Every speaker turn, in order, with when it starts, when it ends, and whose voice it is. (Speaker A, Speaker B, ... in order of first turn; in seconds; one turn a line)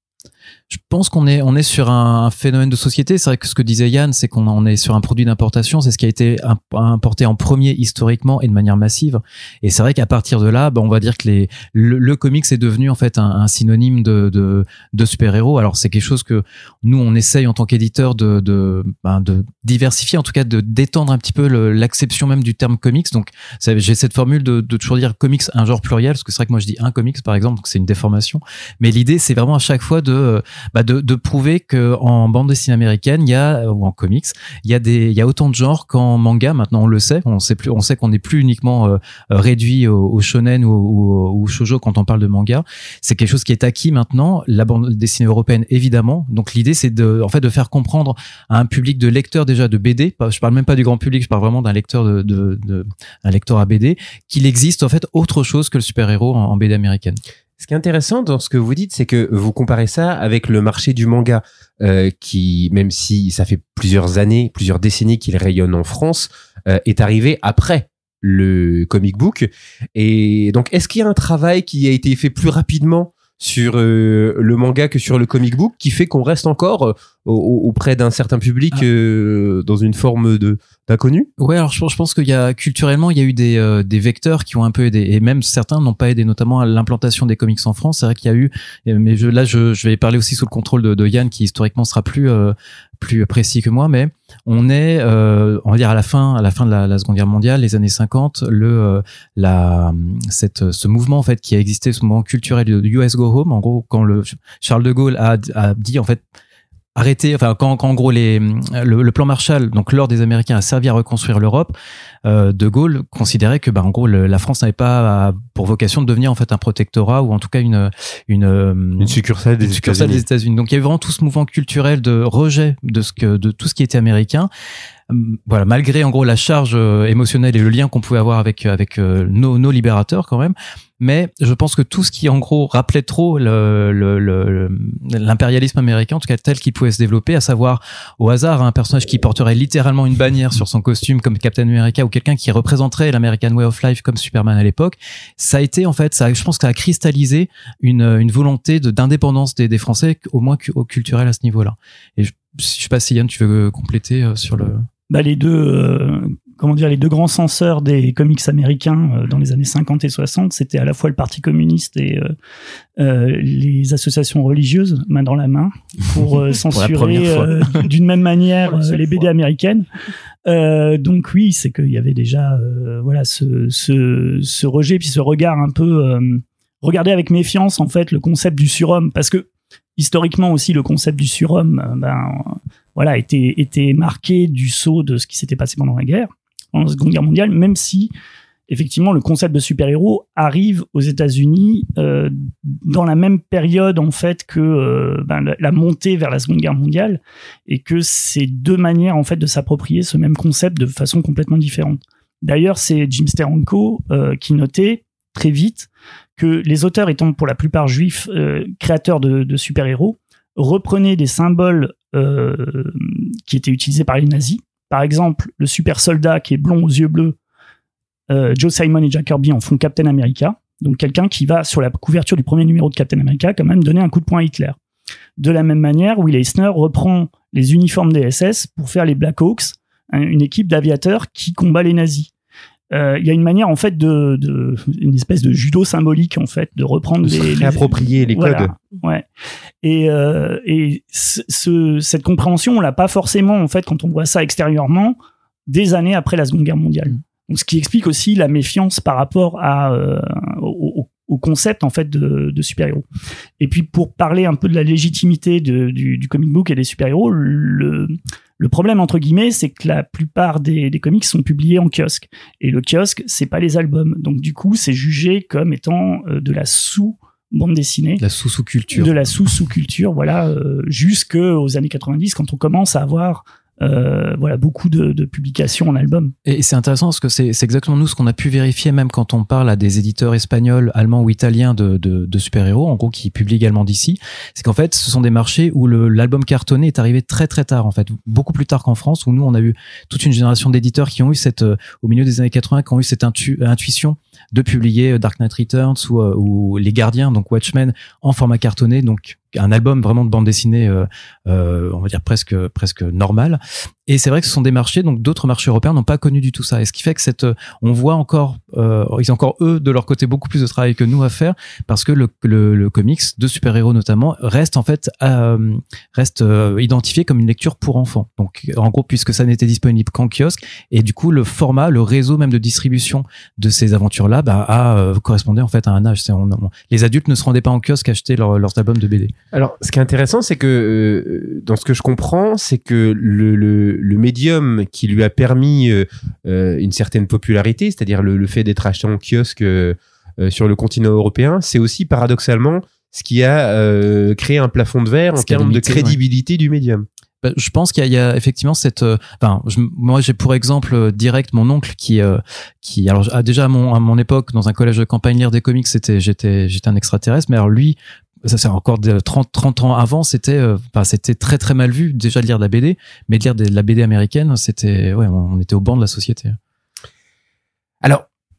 Speaker A: 0.7-57.2
Speaker B: 57.6-81.3
Speaker A: 81.4-106.2
Speaker A: 107.0-124.5
Speaker B: 119.0-120.2
Speaker A: 125.1-154.9
Speaker C: 155.1-162.3
Speaker C: 163.0-169.9
Speaker A: 166.7-167.9
Speaker C: 170.5-179.5
Speaker C: 180.0-188.1
Speaker C: 188.7-217.4
Speaker C: 218.3-224.8
Speaker C: 225.4-232.3
Speaker C: 232.9-239.3
Speaker B: 237.2-238.7
Speaker C: 239.8-245.2
Speaker C: 245.7-253.1
Speaker C: 253.6-268.2
Speaker A: 268.2-269.2
Speaker C: 268.9-276.3
Speaker A: 276.5-329.3
Speaker B: 329.5-347.1
Speaker A: 345.4-346.2
Speaker A: 347.4-366.6